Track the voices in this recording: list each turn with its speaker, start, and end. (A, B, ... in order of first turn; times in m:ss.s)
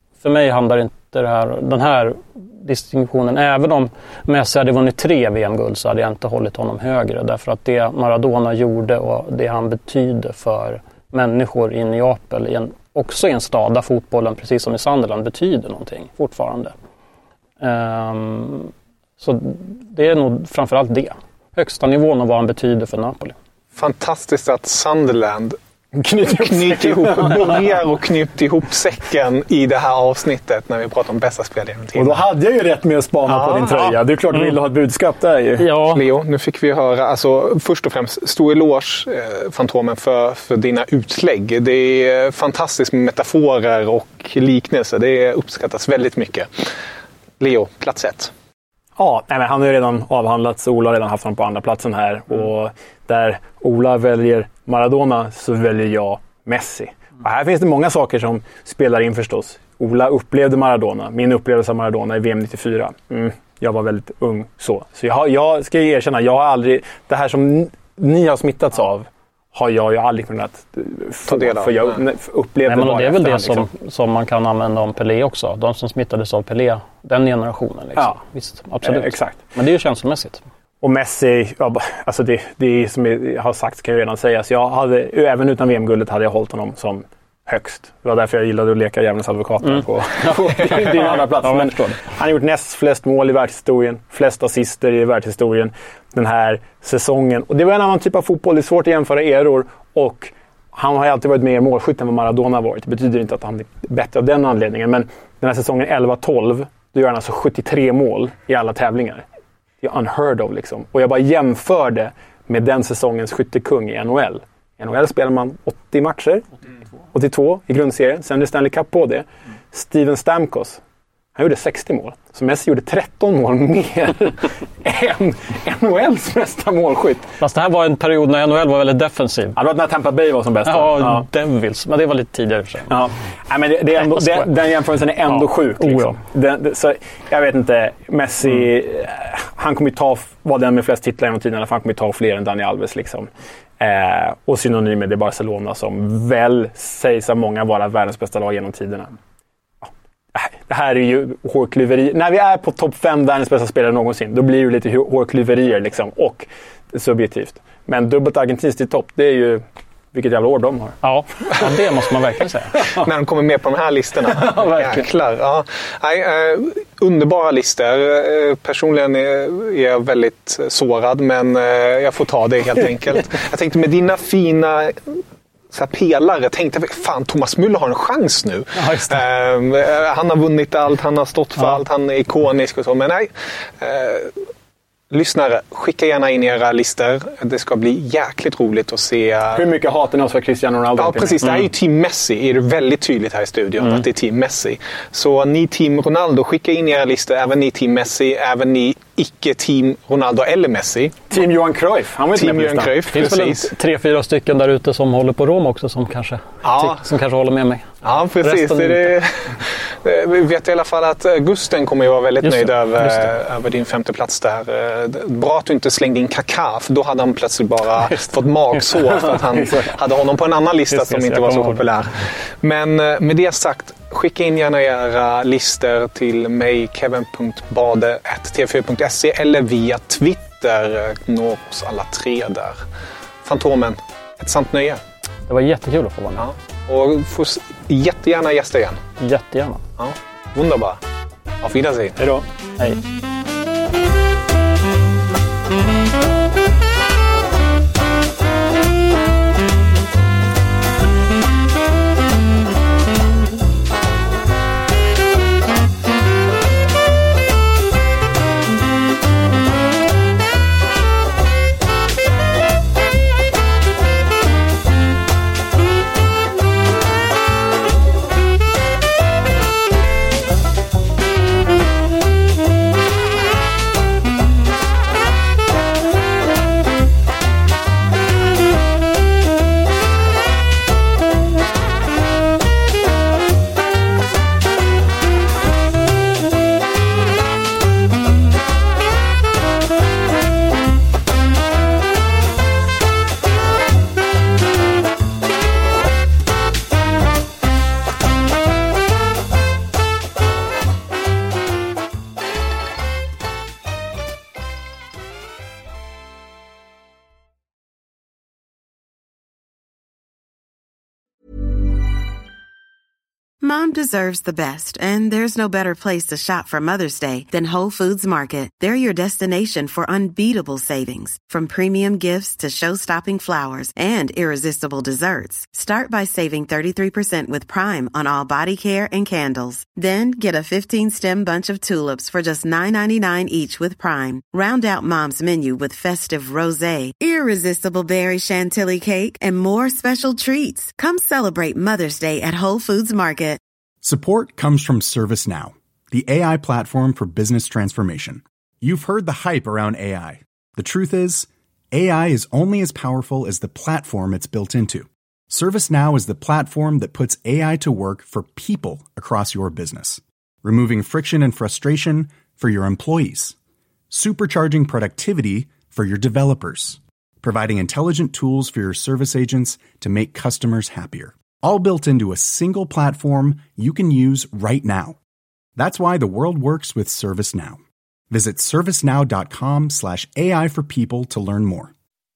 0:00.2-0:16.7 A
0:17.6-0:23.3 A
0:23.7-0:25.6 B
0:26.0-0:27.8 C
0:26.2-0:32.2 B
0:32.0-0:35.7 C
0:33.2-0:34.0 B
0:35.6-0:36.0 A
0:35.9-0:46.5 B
0:47.4-0:48.3 B
0:49.0-1:13.7 C
1:11.3-1:12.0 B
1:12.6-1:20.4 A
1:18.8-1:19.4 C
1:20.8-1:49.2 C
1:29.6-1:32.0 A
1:49.8-1:56.5 C
1:57.1-2:00.8 C
2:01.3-2:07.3 C
2:07.4-2:09.6 A
2:09.6-2:11.2 C
2:10.6-2:12.9 A
2:12.9-2:29.1 C
2:14.0-2:14.4 A
2:15.3-2:16.2 A
2:29.8-2:41.0 C
2:41.0-2:42.8 A
2:42.9-2:55.2 B
2:44.5-2:45.0 A
2:55.7-3:04.4 B
2:58.8-2:59.2 A
3:05.1-3:09.7 B
3:09.5-3:11.6 C
3:11.0-3:21.4 B
3:21.3-3:23.3 C
3:22.3-3:23.7 B
3:23.1-3:27.9 A
3:26.6-3:27.0 B
3:28.0-3:52.8 B
3:28.4-3:29.1 A
3:32.4-3:33.3 A
3:39.6-3:39.9 C
3:41.1-3:41.8 C
3:53.4-3:55.0 B
3:55.5-3:56.4 A
3:56.4-3:59.0 B
3:59.2-3:59.8 A
4:00.0-4:01.0 B
4:01.6-4:02.2 B
4:02.2-4:02.4 C
5:13.6-5:43.6 D
5:44.0-6:03.6 E
6:04.1-6:15.2 E
6:15.8-6:21.9 E